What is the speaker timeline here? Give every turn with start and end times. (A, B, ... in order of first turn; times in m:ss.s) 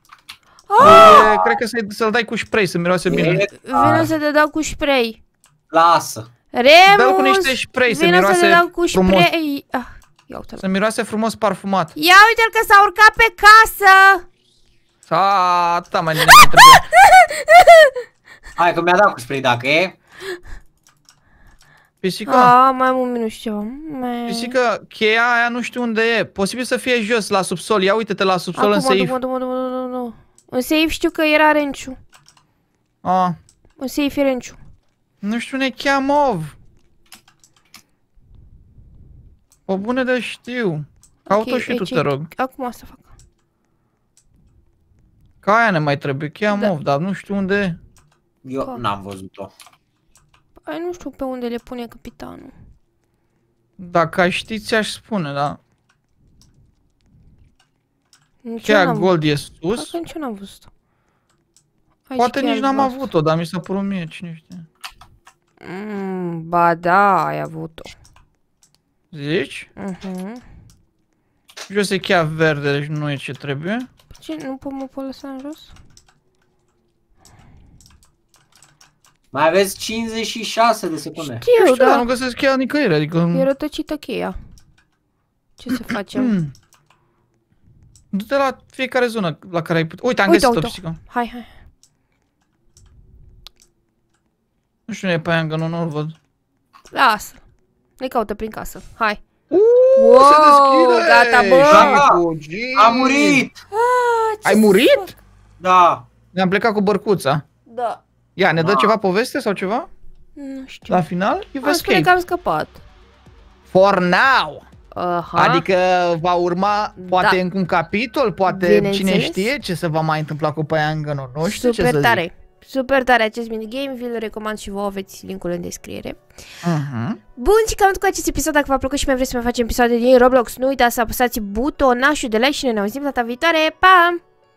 0:00.7-0:01.3 A
0:00.8-0:01.6 B
0:00.8-0:03.4 C
0:03.1-0:04.1 B
0:03.3-0:05.2 A
0:05.7-0:06.3 B
0:06.5-0:10.6 A
0:06.9-0:09.3 C
0:10.6-0:11.9 C
0:12.0-0:14.2 A
0:15.1-0:16.8 C
0:16.3-0:17.9 A
0:18.6-0:19.9 B
0:22.0-0:22.5 C
0:22.3-0:24.5 A
0:24.3-0:29.1 C
0:28.5-0:32.0 A
0:33.0-0:33.4 C
0:33.8-0:34.6 A
0:35.2-0:36.5 C
0:39.7-0:42.3 C
0:41.3-0:43.1 A
0:45.4-0:47.8 C
0:48.4-0:49.5 B
0:50.6-0:52.5 A
0:53.8-0:55.6 C
0:58.4-1:00.7 A
0:58.6-0:59.9 C
1:02.1-1:03.1 A
1:02.2-1:04.6 C
1:05.6-1:07.9 A
1:09.1-1:09.7 C
1:09.8-1:10.4 A
1:11.7-1:13.9 C
1:14.1-1:15.7 A
1:19.3-1:21.4 B
1:21.2-1:22.1 A
1:21.6-1:23.5 C
1:23.3-1:24.4 A
1:25.6-1:26.4 A
1:26.1-1:26.5 C
1:28.1-1:31.0 C
1:30.3-1:31.5 A
1:34.9-1:36.1 C
1:36.9-1:37.4 A
1:38.0-1:39.2 A
1:39.5-1:43.5 C
1:40.0-1:42.0 A
1:41.7-1:42.2 B
1:42.8-1:43.6 B
1:43.7-1:45.1 A
1:44.4-1:45.1 C
1:45.6-1:46.0 B
1:46.3-1:47.4 C
1:47.7-1:48.0 A
1:48.4-1:49.9 C
1:48.6-1:48.9 B
1:50.4-1:51.0 A
1:50.9-1:52.1 C
1:51.6-1:52.8 A
1:53.7-1:54.6 C
1:54.9-1:55.6 A
1:55.3-2:02.2 C
1:57.0-1:57.4 A
1:58.5-1:59.5 A
2:01.4-2:06.2 A
2:06.6-2:07.2 C
2:07.4-2:14.2 A